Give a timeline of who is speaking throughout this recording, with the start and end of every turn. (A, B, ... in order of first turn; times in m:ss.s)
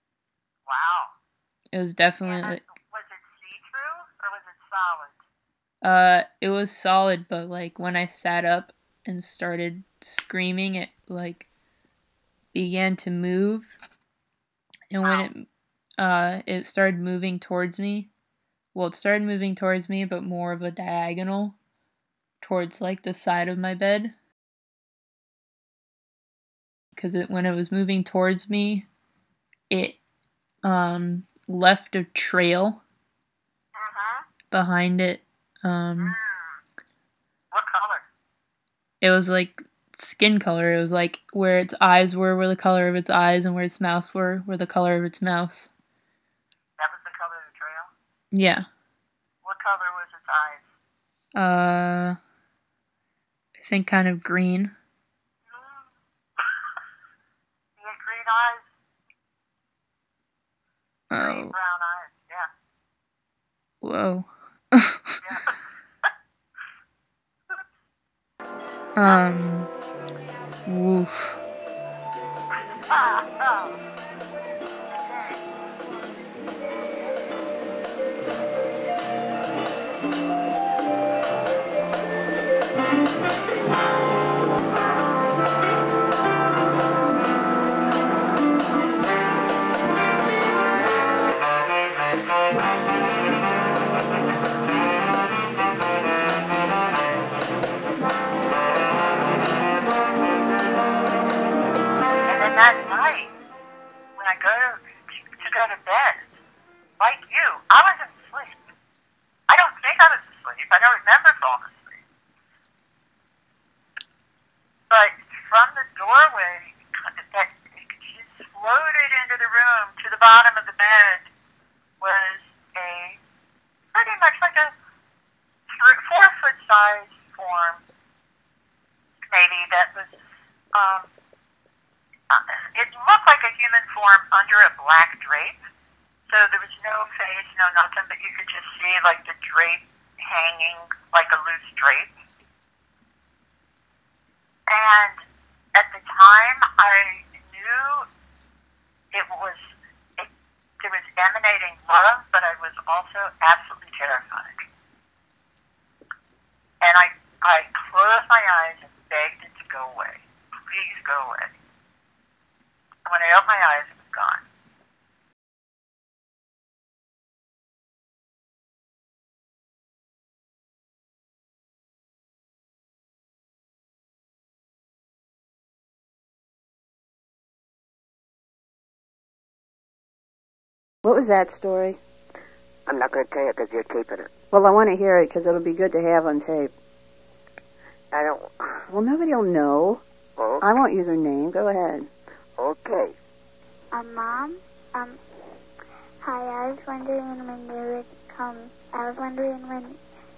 0:00.7-0:01.1 A
0:01.7-0:02.6 B
0:02.2-0:05.2 A
0:05.8-0:11.5 B
0:12.5-0:13.8 B
0:14.9-0:15.5 B
0:15.0-0:15.3 A
0:16.0-0:18.1 B
0:18.7-0:21.6 B
0:22.4-0:24.1 B
0:27.0-0:28.9 B
0:29.7-0:30.0 B
0:30.6-0:32.8 B
0:33.8-0:34.3 A
0:34.5-0:36.2 B
0:36.0-0:36.6 A
0:37.5-0:38.0 A
0:39.0-0:45.7 B
0:46.8-0:47.9 A
0:48.3-0:48.7 B
0:49.4-0:50.7 A
0:51.4-0:52.2 B
0:53.6-0:54.7 B
0:55.5-0:55.9 A
0:57.8-0:58.7 A
1:01.1-1:01.5 B
1:01.1-1:02.5 A
1:03.8-1:05.3 B
1:05.2-1:05.5 A
1:09.0-1:09.7 B
1:10.7-1:11.4 B
1:12.8-1:13.7 A
1:42.3-1:43.3 A
1:44.2-1:44.8 A
1:45.3-1:46.3 A
1:47.0-1:48.6 A
1:49.5-1:52.0 A
1:54.9-2:01.3 A
2:02.0-2:03.2 A
2:04.0-2:04.7 A
2:05.7-2:07.8 A
2:09.3-2:10.2 A
2:10.7-2:11.1 A
2:12.3-2:15.6 A
2:16.3-2:22.1 A
2:24.7-2:25.2 A
2:25.8-2:28.0 A
2:29.1-2:29.6 A
2:30.8-2:34.5 A
2:36.8-2:41.5 A
2:43.0-2:44.4 A
3:01.0-3:02.0 C
3:02.9-3:04.3 D
3:04.5-3:06.7 C
3:08.1-3:08.9 D
3:08.9-3:10.0 C
3:10.4-3:10.7 D
3:10.6-3:12.1 C
3:12.6-3:13.1 D
3:14.0-3:15.2 E
3:16.2-3:20.0 E